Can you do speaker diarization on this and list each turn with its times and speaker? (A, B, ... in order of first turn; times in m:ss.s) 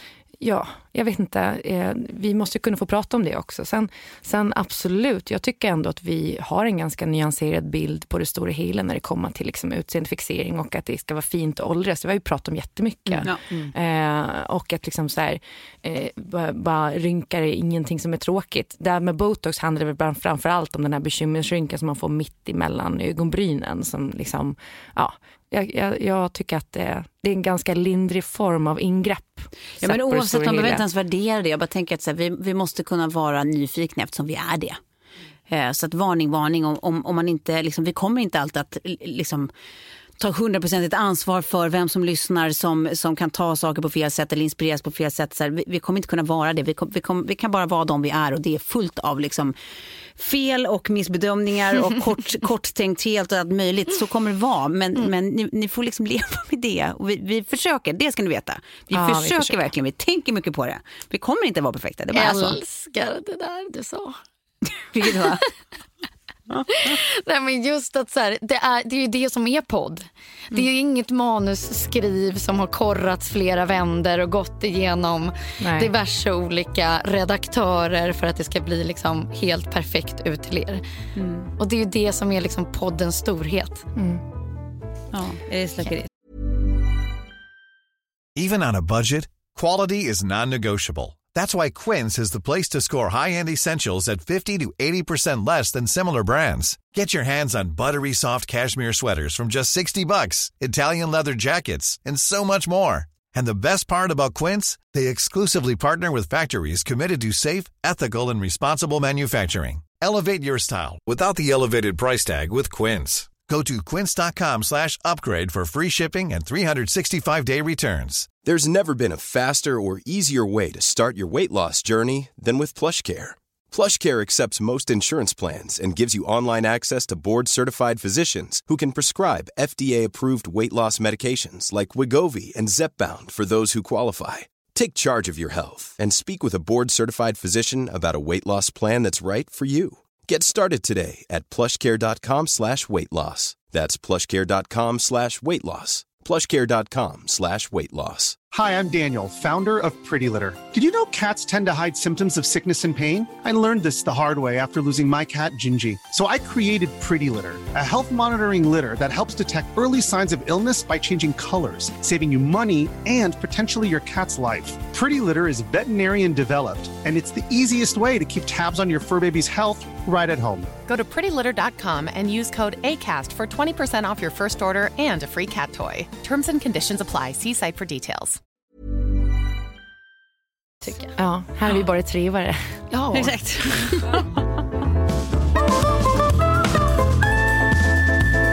0:00.4-0:30.8 A
0:13.0-0:13.7 B
0:29.8-0:34.8 C
0:35.5-0:39.5 C
0:40.2-0:49.5 C
0:50.2-1:02.6 C
0:58.9-0:59.6 A
1:02.1-1:04.2 B
1:04.8-1:05.5 C
1:06.7-1:20.8 B
1:15.6-1:15.9 A
1:21.1-1:21.5 C
1:21.6-1:23.9 B
1:23.9-1:24.2 A
1:25.1-1:26.1 C
1:28.4-1:58.3 D
1:58.4-2:28.4 E
2:28.5-2:50.7 F
2:50.9-2:58.4 G
3:00.8-3:01.1 B
3:01.1-3:02.8 A
3:02.9-3:04.1 B
3:03.1-3:04.3 C